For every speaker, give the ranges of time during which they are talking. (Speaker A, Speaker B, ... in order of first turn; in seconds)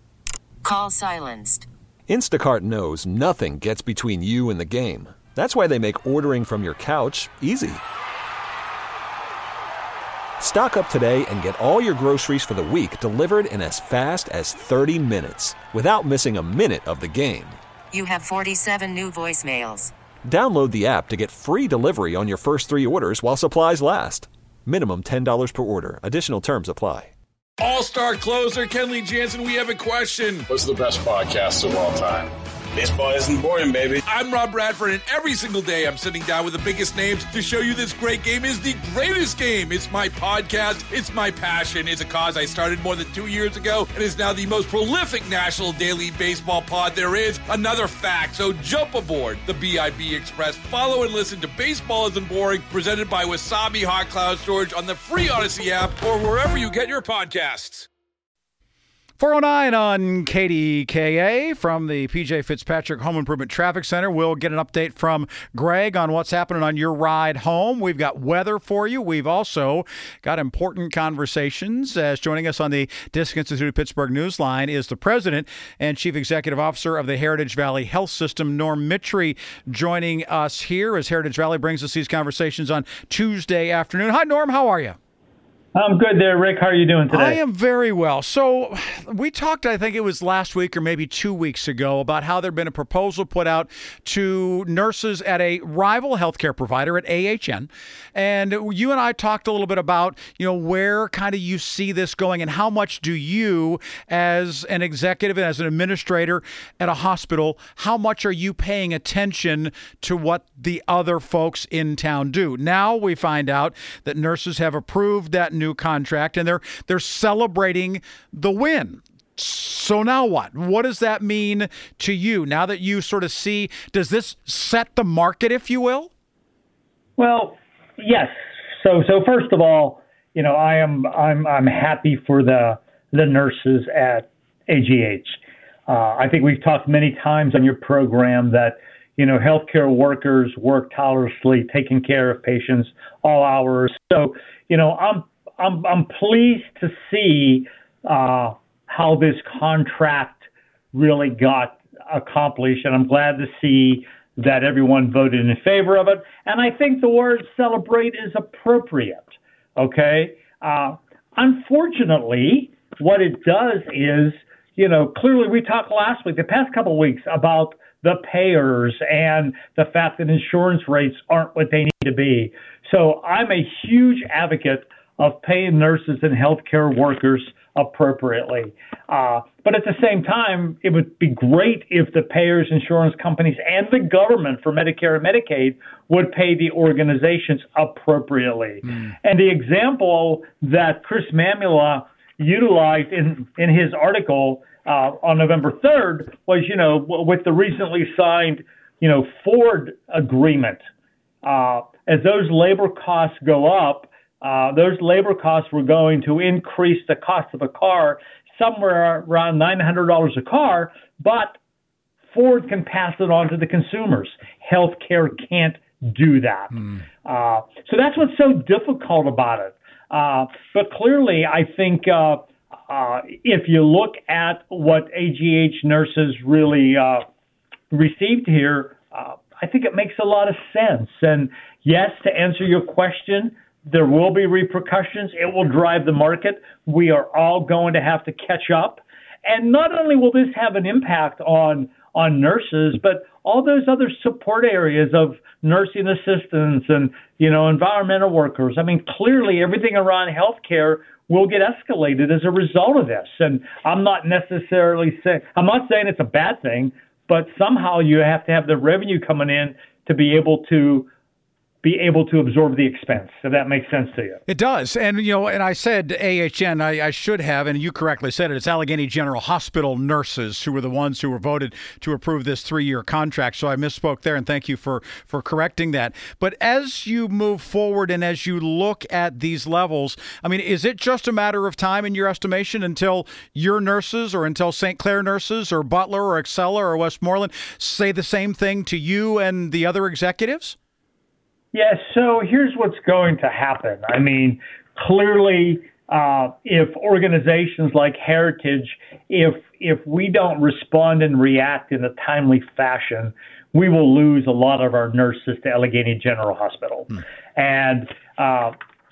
Speaker A: 0.6-1.7, 17.9-19.9
Speaker B: 2.1-7.8, 10.4-17.6, 20.2-27.1
Speaker C: 27.6-30.5, 34.1-57.9
Speaker D: 30.5-34.0
Speaker E: 59.2-85.0, 87.1-126.1, 264.5-290.8
Speaker F: 85.7-87.4, 127.2-150.4, 150.9-200.8, 201.4-211.6, 212.3-227.2, 227.9-261.1, 261.8-264.4, 291.7-308.8